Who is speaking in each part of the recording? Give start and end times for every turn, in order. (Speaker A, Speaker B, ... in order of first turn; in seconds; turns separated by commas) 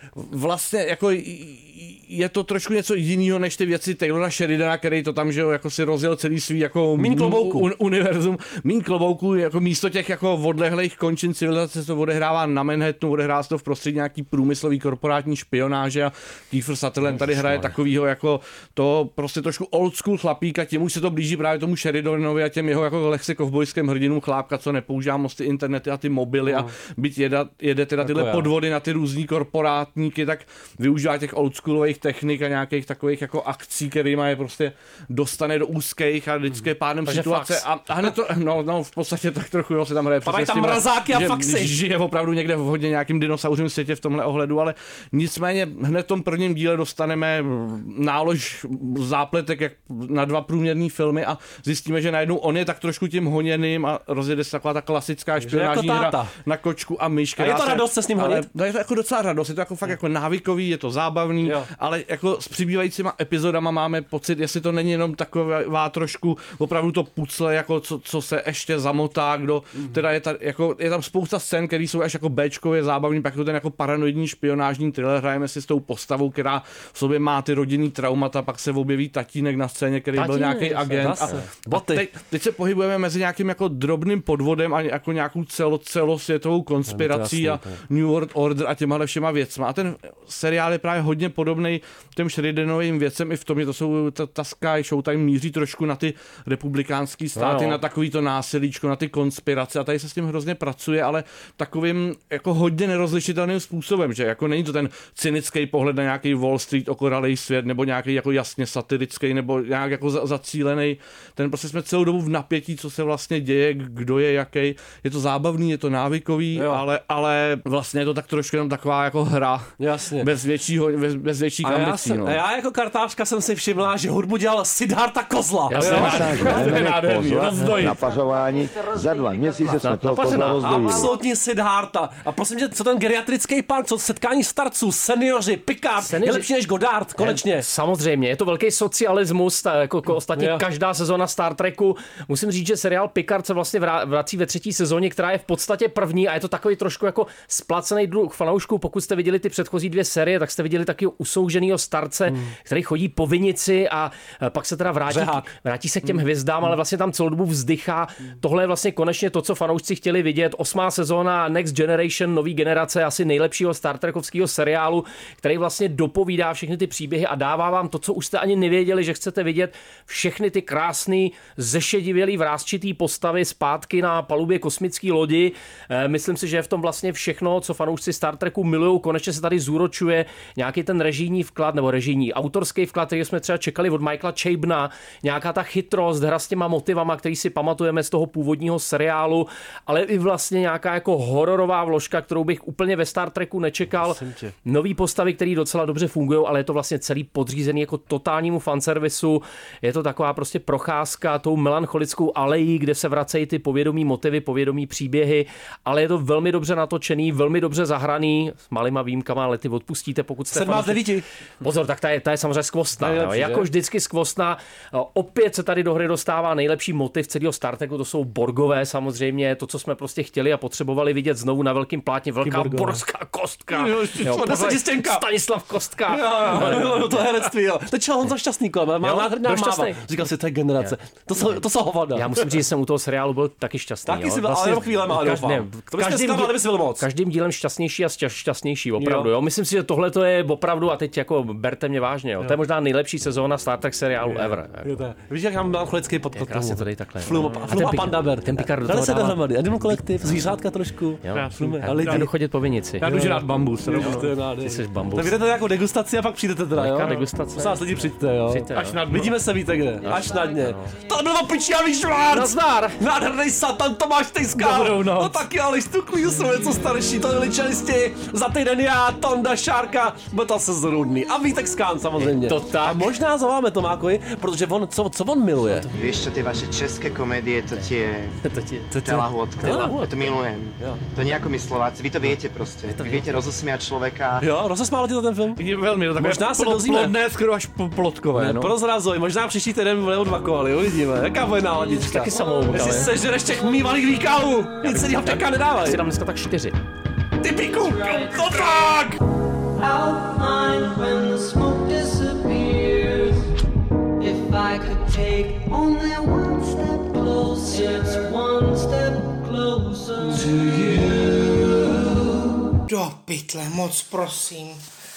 Speaker A: 0.2-122.4, Speaker B: 7.0-7.7, Speaker B: 28.0-28.5, Speaker C: 37.1-37.6, Speaker B: 40.2-41.7, Speaker B: 55.4-56.3, Speaker B: 57.4-58.5, Speaker B: 61.4-61.7, Speaker C: 80.2-81.5, Speaker B: 80.9-82.0, Speaker B: 86.9-87.8, Speaker C: 97.3-97.8, Speaker B: 116.5-116.8, Speaker B: 119.8-120.3, Speaker B: 121.6-126.7, Speaker C: 125.7-127.9, Speaker A: 125.8-128.0, Speaker D: 125.8-131.1, Speaker C: 129.7-131.1, Speaker B: 130.7-137.7, Speaker C: 136.0-136.5, Speaker C: 137.2-211.1, Speaker B: 140.4-140.6, Speaker B: 152.3-152.5, Speaker B: 155.1-155.5, Speaker B: 194.0-194.5, Speaker B: 210.5-211.2, Speaker C: 211.6-227.4, Speaker B: 213.0-213.7, Speaker B: 222.4-223.0, Speaker A: 223.7-224.8, Speaker B: 223.9-225.2, Speaker B: 226.1-232.3, Speaker C: 229.0-230.0, Speaker C: 232.1-244.9, Speaker B: 234.1-237.1, Speaker B: 239.0-239.3, Speaker B: 244.3-252.3, Speaker C: 246.3-250.0, Speaker C: 251.2-253.1, Speaker A: 251.3-252.3, Speaker A: 253.0-254.3, Speaker B: 253.0-275.9, Speaker C: 253.9-255.3, Speaker C: 256.8-259.1, Speaker A: 258.7-259.3, Speaker C: 260.0-260.9, Speaker E: 260.3-260.9, Speaker C: 262.3-263.0, Speaker A: 264.6-265.3, Speaker C: 264.9-265.2, Speaker E: 269.8-270.4, Speaker C: 272.2-273.1, Speaker C: 275.7-276.1, Speaker F: 275.9-278.4, Speaker C: 277.7-278.9, Speaker B: 278.9-280.1, Speaker F: 278.9-284.5, Speaker C: 279.6-280.4, Speaker B: 280.8-281.1, Speaker C: 282.9-283.4, Speaker B: 284.4-285.6, Speaker A: 285.6-288.7, Speaker B: 286.2-287.1, Speaker B: 288.4-296.0, Speaker C: 292.0-293.1, Speaker E: 292.3-294.7, Speaker C: 294.8-296.8, Speaker B: 297.4-299.2, Speaker E: 297.4-298.9, Speaker E: 299.8-303.5, Speaker E: 304.2-312.1, Speaker G: 312.9-314.8